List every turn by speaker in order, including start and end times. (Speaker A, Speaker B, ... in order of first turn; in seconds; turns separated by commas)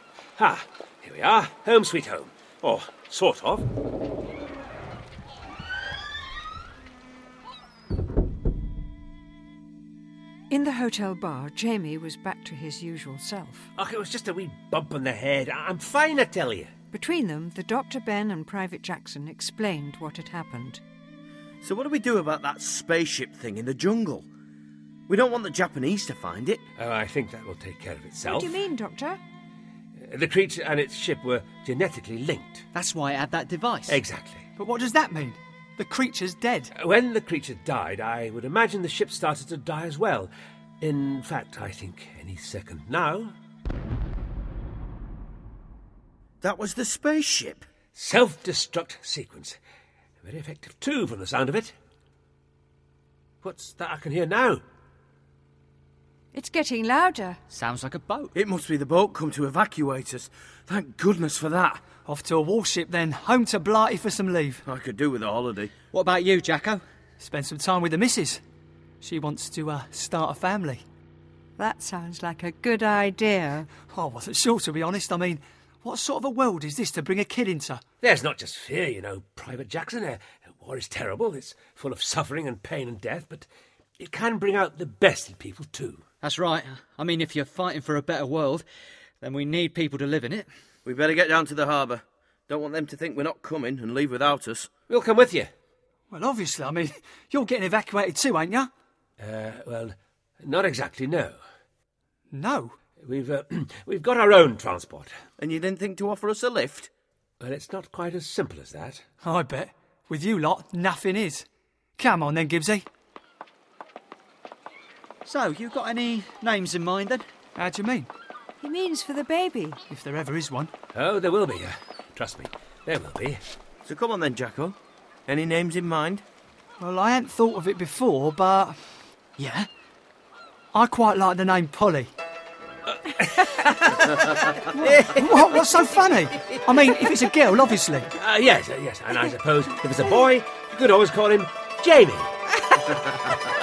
Speaker A: 0.4-3.7, Speaker B: 10.5-13.7, Speaker A: 13.8-16.7, Speaker B: 16.9-20.8, Speaker C: 21.6-24.3, Speaker C: 25.1-26.6, Speaker A: 26.8-28.6, Speaker B: 28.2-29.2, Speaker A: 30.0-32.6, Speaker D: 32.7-34.0, Speaker A: 33.9-34.5, Speaker E: 34.6-36.7, Speaker A: 36.8-43.4, Speaker C: 46.4-47.7, Speaker A: 48.0-49.6, Speaker A: 50.2-51.8, Speaker A: 53.4-54.6, Speaker B: 56.3-57.4, Speaker D: 57.5-58.3, Speaker C: 58.4-61.9, Speaker E: 62.0-64.6, Speaker C: 64.7-65.7, Speaker D: 65.9-66.8, Speaker E: 67.2-68.4, Speaker E: 69.0-70.8, Speaker B: 71.6-73.7, Speaker E: 73.9-77.8, Speaker A: 78.0-83.5, Speaker A: 84.0-86.0, Speaker D: 86.2-88.7, Speaker D: 89.2-90.5, Speaker C: 90.8-94.7, Speaker A: 94.9-95.5, Speaker E: 96.1-98.7, Speaker A: 99.2-101.4, Speaker E: 102.3-102.8, Speaker A: 103.0-105.2, Speaker C: 105.4-106.9, Speaker A: 107.4-109.0, Speaker E: 109.2-111.5, Speaker E: 112.0-112.9, Speaker D: 115.3-117.3, Speaker E: 117.6-118.1, Speaker B: 118.6-119.8, Speaker E: 119.9-120.7, Speaker A: 120.9-123.4, Speaker C: 123.8-126.2, Speaker E: 126.8-128.8, Speaker D: 129.4-129.7, Speaker E: 130.7-132.1, Speaker A: 132.9-134.2, Speaker E: 134.7-138.1, Speaker A: 134.8-135.1, Speaker A: 138.2-142.3